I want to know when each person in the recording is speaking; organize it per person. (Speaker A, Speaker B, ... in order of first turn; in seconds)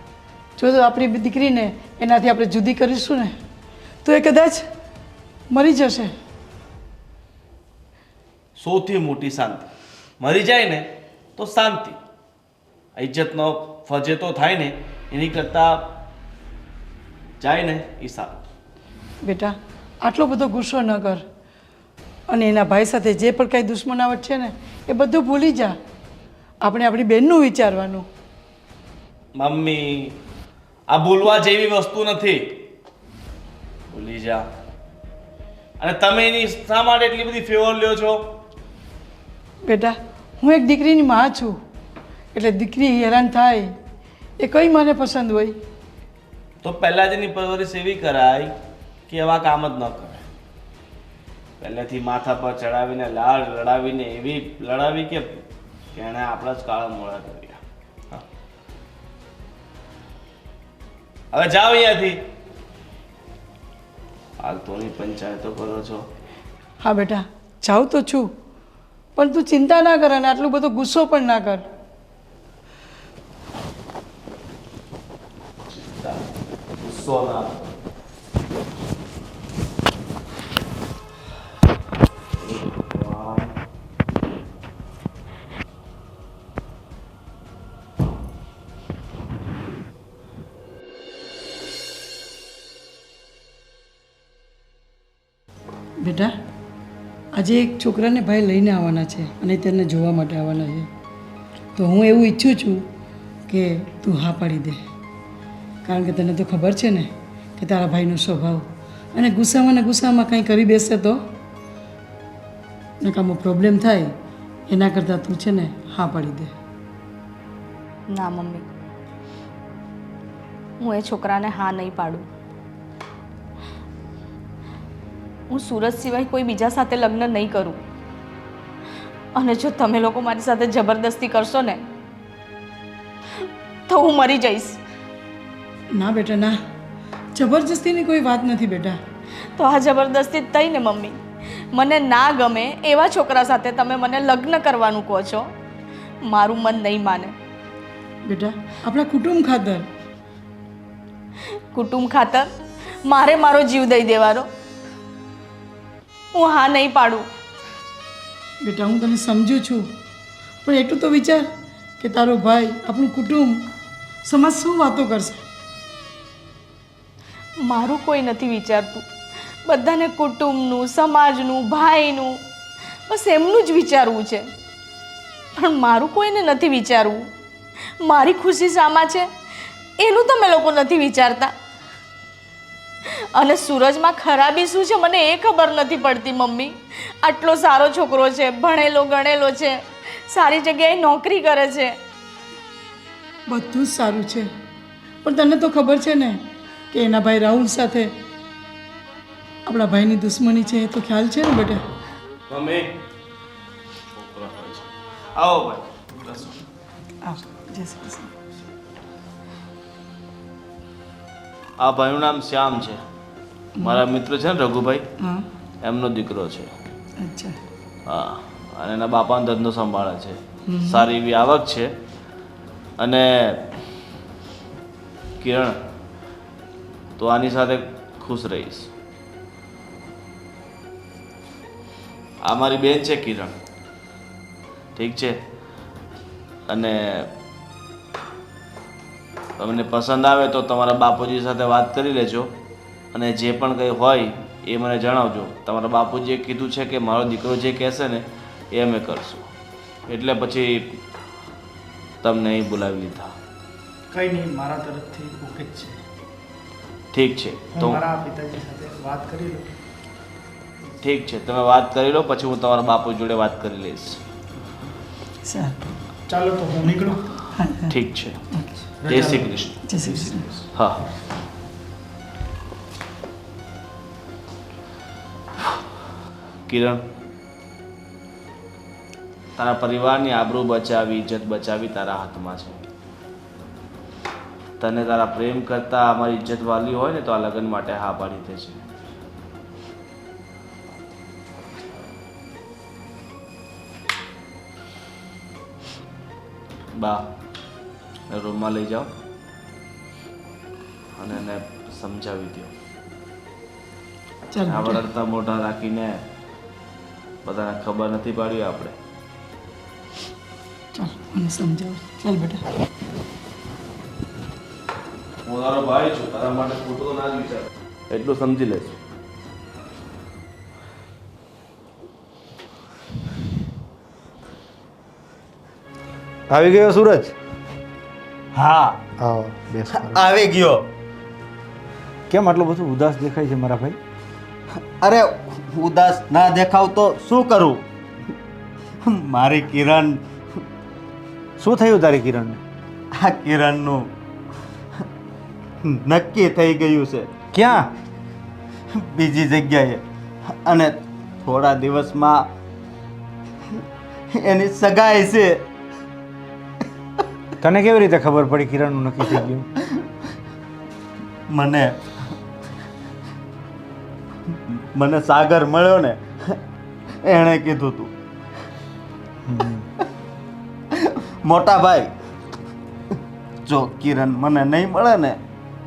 Speaker A: 0.6-3.4, 4.0-4.7, 5.5-6.1, 19.2-21.2, 22.3-25.8, 26.6-28.1, 39.7-41.6, 42.3-43.7, 44.4-45.5, 66.8-68.3, 69.2-71.6, 96.0-96.3, 97.3-100.9, 101.8-102.8, 103.5-104.8, 105.8-111.2, 113.0-114.1, 114.7-116.5, 135.9-136.6, 137.3-139.0, 148.2-149.9, 158.6-159.9, 160.6-163.6, 164.2-165.4, 193.5-194.5, 195.2-198.1, 199.7-201.8, 207.2-208.3, 215.2-215.4, 217.2-217.6, 220.7-221.1, 265.4-265.8, 267.6-267.9, 269.9-270.4, 304.5-305.0, 310.9-312.6
Speaker B: 8.6-9.7, 10.2-12.0, 12.9-16.0, 17.4-18.4, 29.4-30.2, 30.9-32.6, 33.9-34.5, 35.8-38.3, 46.6-48.5, 49.1-50.2, 51.6-55.4, 55.9-58.2, 61.3-62.2, 64.4-66.0, 75.7-76.2, 76.8-77.7, 82.4-83.5, 202.5-202.9, 204.2-206.6, 211.8-213.0, 213.8-215.1, 215.8-216.7, 218.1-221.9, 223.0-223.7, 225.4-225.8, 227.2-228.9, 232.4-233.5, 234.9-235.4, 236.7-237.3, 239.6-242.5, 243.1-249.5, 250.1-251.0, 252.2-253.3, 257.1-258.0, 261.0-264.2, 267.9-268.4, 269.0-271.0, 276.7-277.0, 279.6-282.8, 284.8-288.8, 296.9-297.3, 298.3-299.1, 301.1-302.7, 304.7-306.2, 307.4-308.9, 315.4-319.0, 328.5-328.9
Speaker C: 118.1-118.7, 120.8-122.2, 125.5-127.8, 129.3-131.8, 133.4-134.8, 139.6-141.2, 141.7-145.5, 146.2-147.3, 151.7-152.5, 153.0-154.5, 156.3-157.2, 167.6-169.0, 169.7-172.3, 173.1-174.5, 175.5-177.2, 178.0-179.3, 180.0-181.5, 183.1-192.0
Speaker D: 254.1-256.0, 257.7-259.7, 266.3-267.4, 269.0-270.4
Speaker E: 326.5-327.3, 329.2-330.3, 332.3-334.0, 341.6-342.6, 347.5-347.9, 357.6-359.7, 369.4-369.9
Speaker F: 329.9-330.9, 334.8-337.9, 339.0-340.2, 343.1-344.1, 345.8-347.3, 348.9-352.5, 354.3-355.7, 361.5-362.0, 364.5-366.6, 367.2-368.1, 370.9-372.1, 373.6-375.4